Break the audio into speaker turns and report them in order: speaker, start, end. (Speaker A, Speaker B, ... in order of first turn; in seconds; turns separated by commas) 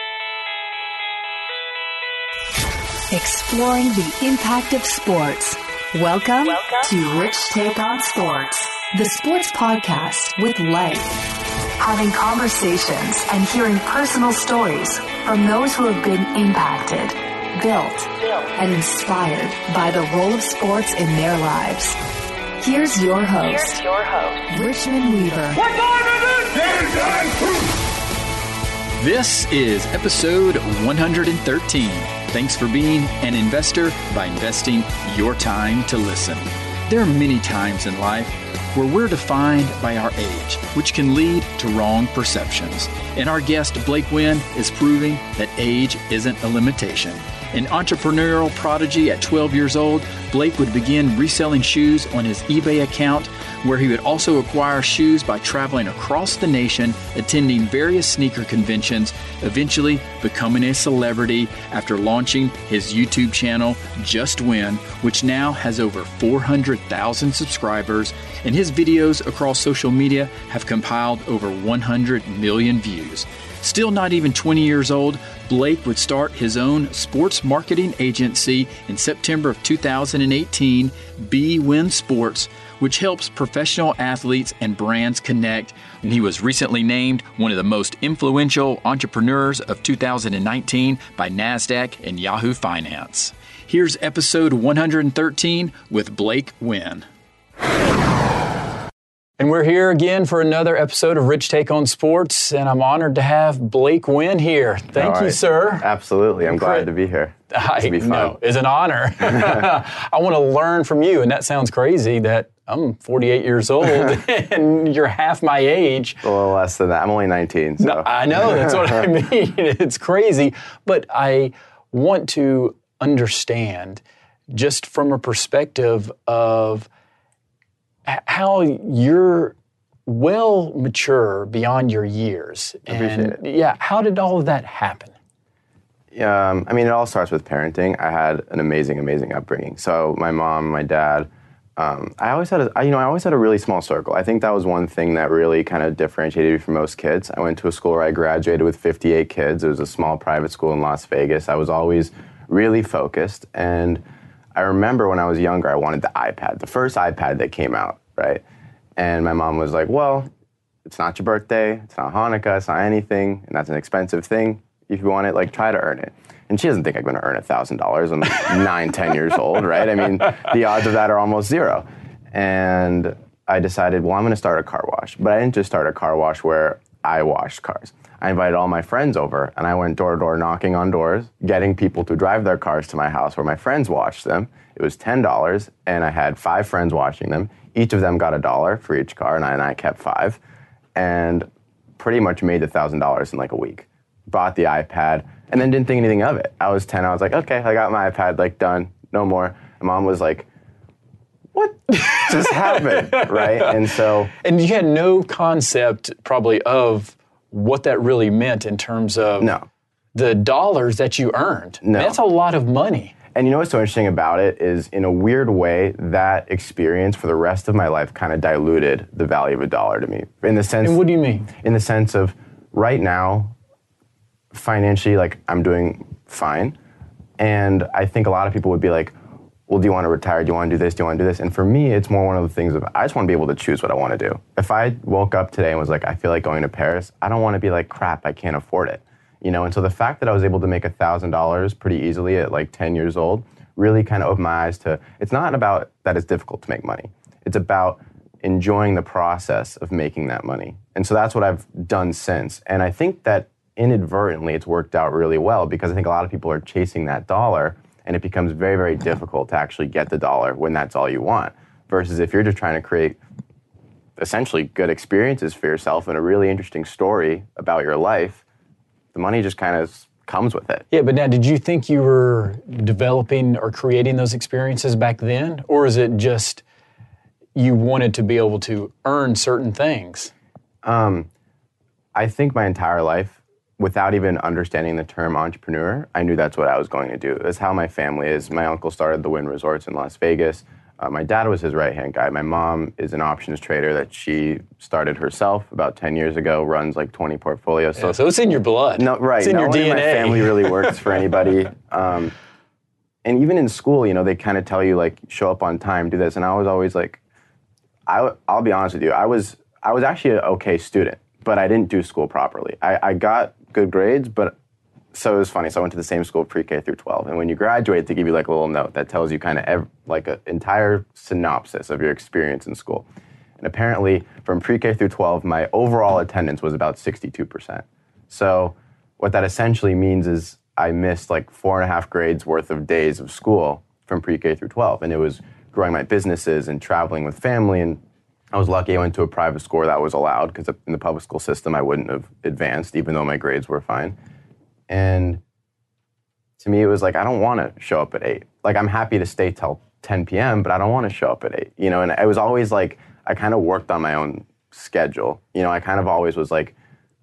Speaker A: 3.1-11.2, Speaker A: 11.8-22.0, Speaker A: 22.6-25.6, Speaker B: 25.6-27.4, Speaker B: 29.0-97.1, Speaker B: 99.4-105.9, Speaker C: 105.0-108.3, Speaker B: 106.5-106.9, Speaker B: 107.5-116.2, Speaker C: 116.2-119.0, Speaker B: 117.8-126.9, Speaker B: 128.1-129.5, Speaker B: 130.1-135.1, Speaker C: 132.9-133.4, Speaker C: 136.1-154.0, Speaker C: 154.5-158.4, Speaker C: 159.0-160.3, Speaker C: 160.8-190.4, Speaker C: 190.9-191.4, Speaker C: 192.0-200.5, Speaker C: 201.5-204.3, Speaker B: 201.9-203.7, Speaker B: 204.3-209.5, Speaker C: 209.4-209.7, Speaker B: 210.1-213.1, Speaker C: 211.8-212.2, Speaker C: 213.3-223.5, Speaker B: 220.8-221.5, Speaker C: 224.5-226.8, Speaker C: 227.4-229.1, Speaker C: 229.7-263.2, Speaker C: 264.2-268.4, Speaker C: 269.1-270.9, Speaker B: 270.9-276.6, Speaker B: 277.6-280.3, Speaker C: 280.8-281.3, Speaker C: 282.1-298.2, Speaker B: 297.9-301.0, Speaker C: 299.0-302.3, Speaker C: 303.2-307.2, Speaker C: 308.1-314.6, Speaker C: 315.1-323.1, Speaker C: 323.6-338.0, Speaker C: 338.5-344.1, Speaker C: 344.9-345.4, Speaker C: 346.6-356.7